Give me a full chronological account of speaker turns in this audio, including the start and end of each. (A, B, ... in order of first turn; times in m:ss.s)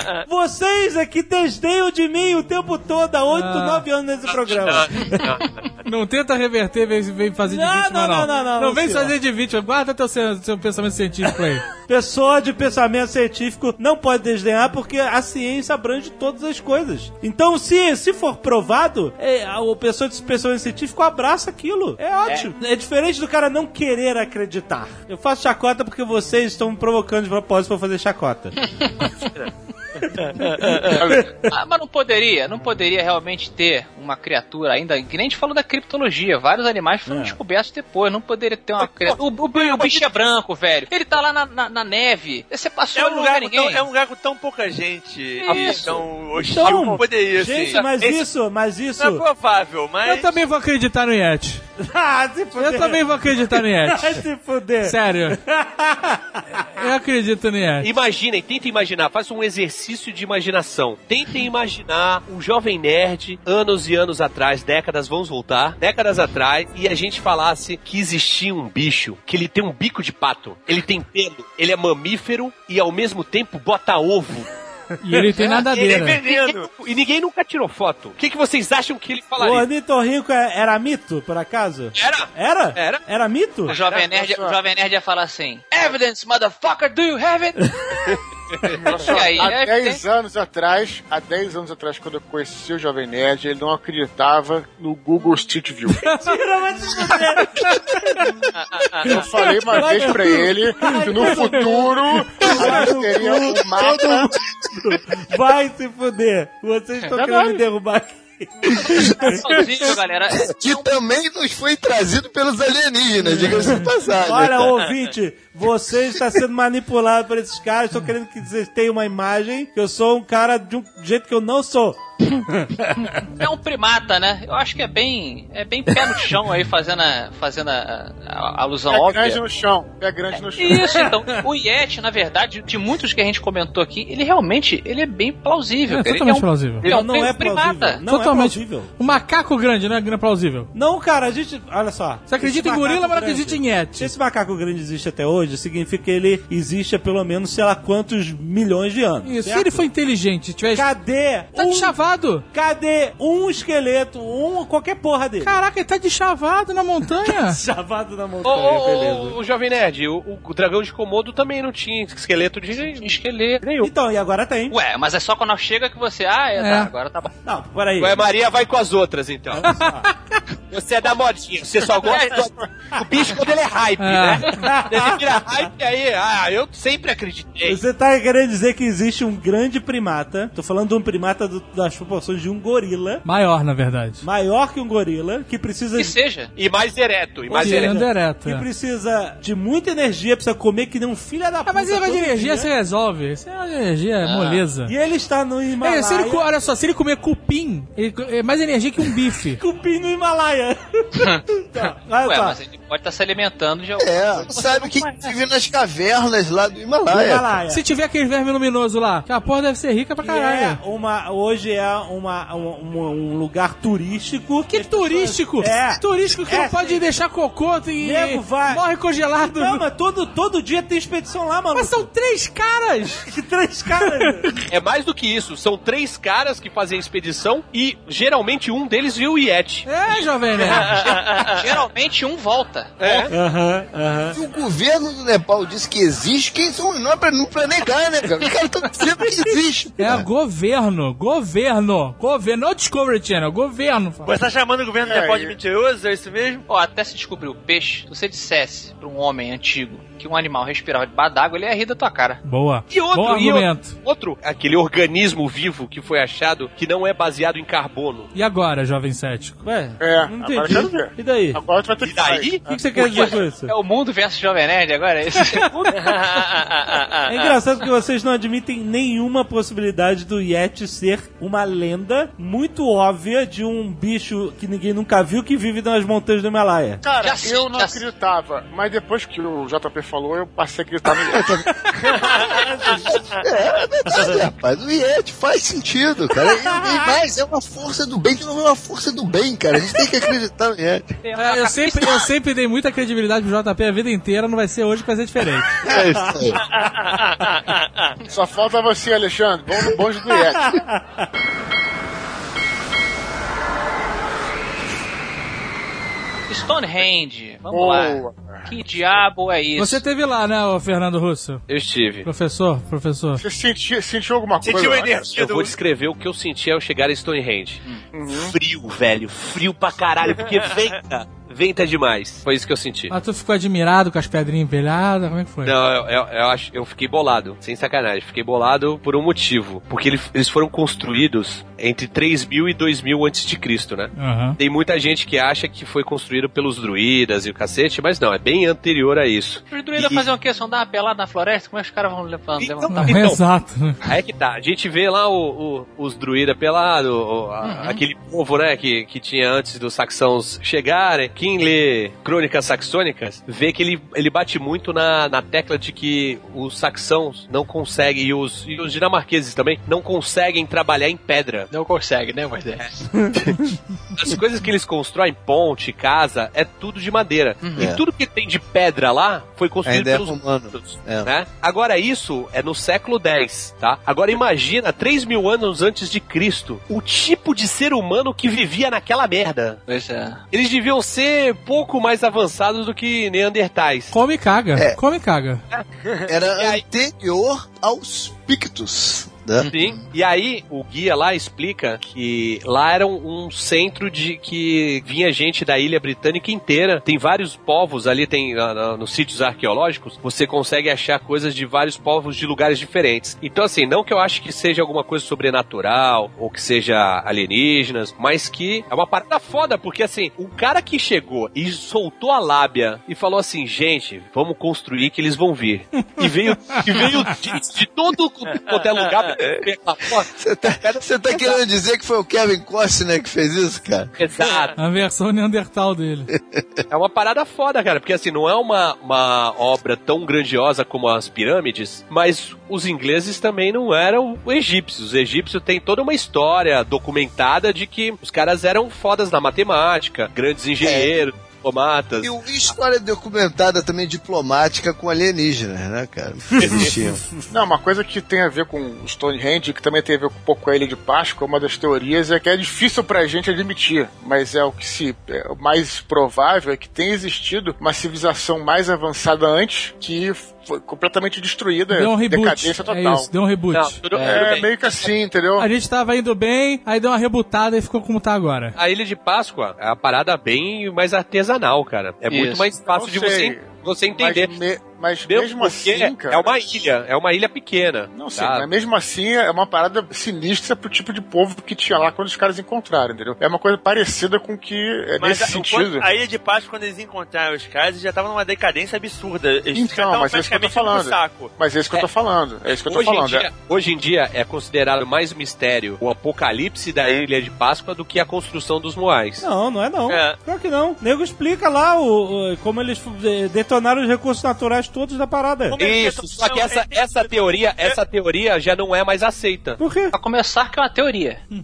0:00.2-0:05.4 A
0:03.3-0:03.8 B
0:04.3-0:05.6 C
0:05.8-0:11.7 B
0:07.4-0:09.2 A
0:11.8-0:28.6 A
0:28.8-0:29.1 D
0:30.2-0:31.0 E
0:30.4-0:31.3 A
0:31.0-0:43.8 D
0:37.1-0:37.4 A
0:38.8-0:40.0 C
0:42.9-0:48.3 E
0:45.4-0:46.0 D
0:45.5-0:45.9 C
0:46.4-0:49.2 A
0:49.0-0:50.4 E
0:50.0-0:51.6 B
0:51.8-0:56.7 A
0:52.6-0:54.2 B
0:54.8-0:55.4 B
0:56.8-0:57.9 B
0:57.8-1:14.5 C
1:15.0-1:16.2 B
1:15.5-1:16.7 E
1:16.0-1:19.7 C
1:19.4-1:23.8 A
1:22.0-1:23.0 C
1:23.7-1:24.0 C
1:23.7-1:27.7 D
1:23.9-1:24.6 F
1:27.6-1:28.0 A
1:28.1-1:28.7 C
1:28.8-1:36.1 F
1:28.9-1:30.0 D
1:36.0-1:36.4 B
1:36.2-1:38.3 A
1:37.0-1:37.4 B
1:39.0-1:44.3 F
1:39.0-1:49.6 A
1:47.1-1:47.6 F
1:48.8-1:54.8 G
1:49.4-1:51.0 D
1:53.2-2:03.2 A
2:03.1-2:09.4 D
2:08.9-2:11.1 F
2:10.3-2:18.0 D
2:10.8-2:11.1 A
2:15.9-2:16.9 B
2:16.8-2:18.9 A
2:18.1-2:20.7 B
2:20.7-2:29.9 A
2:22.3-2:24.1 B
2:29.2-2:30.9 B
2:30.7-2:35.5 A
2:31.5-2:32.4 B
2:35.4-2:37.6 B
2:37.2-2:39.4 A
2:38.4-2:43.9 C
2:42.7-2:43.7 D
2:43.8-2:44.8 A
2:44.7-2:47.3 D
2:46.6-2:46.9 B
2:47.4-2:48.2 A
2:48.0-2:49.7 C
2:49.6-2:50.1 A
2:49.7-2:50.0 B
2:50.7-2:57.8 C
2:52.0-2:52.4 D
2:54.0-2:54.6 B
2:54.6-2:55.2 A
2:57.6-3:03.2 A
3:03.2-3:04.2 B
3:04.2-3:06.2 A
3:06.0-3:06.5 D
3:06.6-3:08.0 C
3:07.5-3:12.7 A
3:07.6-3:08.7 B
3:11.7-3:14.9 B
3:14.2-3:14.6 D
3:14.8-3:16.5 A
3:15.8-3:19.6 B
3:19.5-3:22.6 A
3:21.2-3:21.4 D
3:22.2-3:25.3 D
3:24.0-3:27.6 G
3:27.1-3:27.8 A
3:27.7-3:30.8 B
3:30.2-3:37.1 A
3:34.7-3:39.8 B
3:38.0-3:38.9 A
3:39.4-3:42.1 A
3:41.8-3:43.3 B
3:43.3-3:44.6 A
3:44.0-3:44.4 B
3:44.7-3:50.3 C
3:49.9-3:50.9 B
3:50.6-3:51.7 E
3:50.9-3:53.3 D
3:53.0-3:53.3 C
3:53.3-3:54.4 A
3:54.3-4:00.3 G
4:00.0-4:04.3 B
4:04.2-4:06.6 E
4:05.0-4:05.6 F
4:06.7-4:12.4 D
4:12.4-4:14.0 B
4:12.9-4:18.3 C
4:18.4-4:19.6 B
4:19.6-4:21.6 A
4:20.0-4:22.6 F
4:22.0-4:23.4 C
4:22.7-4:23.7 A
4:23.0-4:26.2 D
4:26.0-4:27.5 E
4:27.3-4:37.0 A
4:37.0-4:41.5 F
4:37.2-4:38.0 D
4:41.3-4:41.6 G
4:41.7-4:43.2 A
4:43.1-4:51.1 G
4:44.1-4:44.4 A
4:46.4-4:47.0 A
4:51.2-4:52.3 D
4:51.4-4:55.8 B
4:55.8-4:56.6 G
4:55.9-4:56.6 A
4:56.8-4:58.2 E
4:58.3-5:00.8 F
5:00.3-5:01.3 A
5:06.5-5:10.0 D
5:07.6-5:09.2 F
5:09.8-5:11.6 B
5:11.7-5:12.3 C
5:12.2-5:13.4 B
5:13.4-5:15.4 F
5:14.6-5:15.8 E
5:15.3-5:23.1 C
5:18.1-5:18.6 F
5:23.1-5:25.8 B
5:25.6-5:40.2 C
5:34.2-5:34.6 B
5:39.7-5:43.4 D
5:42.6-5:43.4 C
5:42.9-5:44.0 B
5:44.0-6:01.7 C
5:47.6-5:48.0 D
6:01.7-6:03.0 D
6:02.8-6:03.6 C
6:03.2-6:03.7 A
6:04.1-6:19.8 C
6:07.6-6:07.9 D
6:09.8-6:11.3 G
6:19.9-6:20.4 D
6:20.5-6:24.1 C
6:24.1-6:25.6 B
6:26.3-6:29.7 G
6:26.6-6:26.8 C
6:29.6-6:30.0 D
6:29.7-7:01.6 C
7:00.3-7:04.1 G
7:04.2-7:04.8 C
7:04.8-7:06.3 B
7:06.9-7:22.7 C
7:20.8-7:21.2 G
7:22.2-7:27.2 G
7:26.6-7:27.0 C
7:27.5-7:43.3 F
7:41.9-7:44.0 B
7:43.7-7:45.1 C
7:44.2-7:45.7 F
7:45.6-7:48.8 B
7:48.8-7:54.5 C
7:52.3-7:52.7 D
7:52.8-7:56.5 F
7:55.3-7:58.7 C
7:58.1-8:06.1 F
8:05.2-8:11.5 E
8:09.7-8:13.5 F
8:12.8-8:19.5 C
8:19.4-8:25.8 A
8:20.1-8:20.4 E
8:25.7-8:28.0 E
8:25.8-8:29.8 C
8:29.8-8:30.2 A
8:30.1-8:31.4 D